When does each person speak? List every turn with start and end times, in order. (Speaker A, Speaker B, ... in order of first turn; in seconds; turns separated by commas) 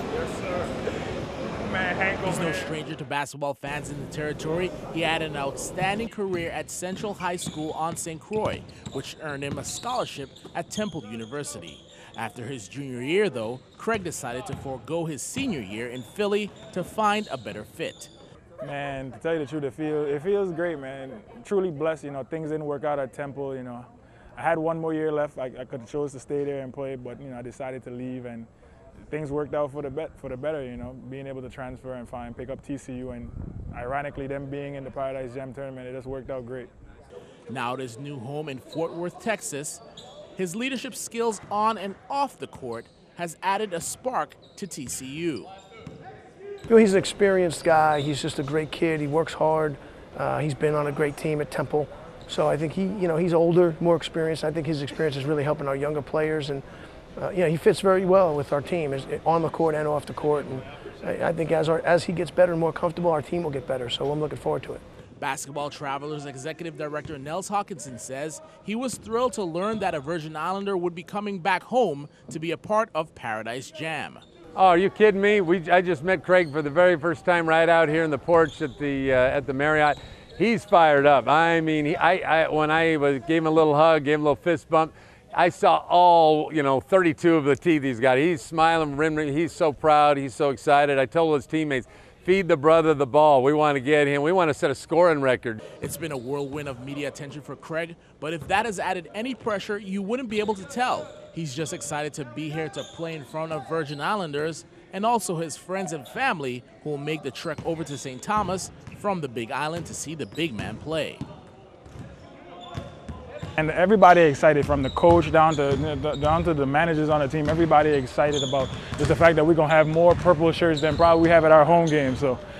Speaker A: 1.7-2.2, Speaker B: 2.2-18.1, Speaker A: 18.6-28.5, Speaker A: 29.1-36.7, Speaker B: 37.5-39.8, Speaker B: 40.4-45.5, Speaker C: 46.7-56.6, Speaker C: 57.2-64.8, Speaker B: 65.2-74.2, Speaker D: 74.5-95.6, Speaker B: 95.8-111.2, Speaker A: 113.6-122.4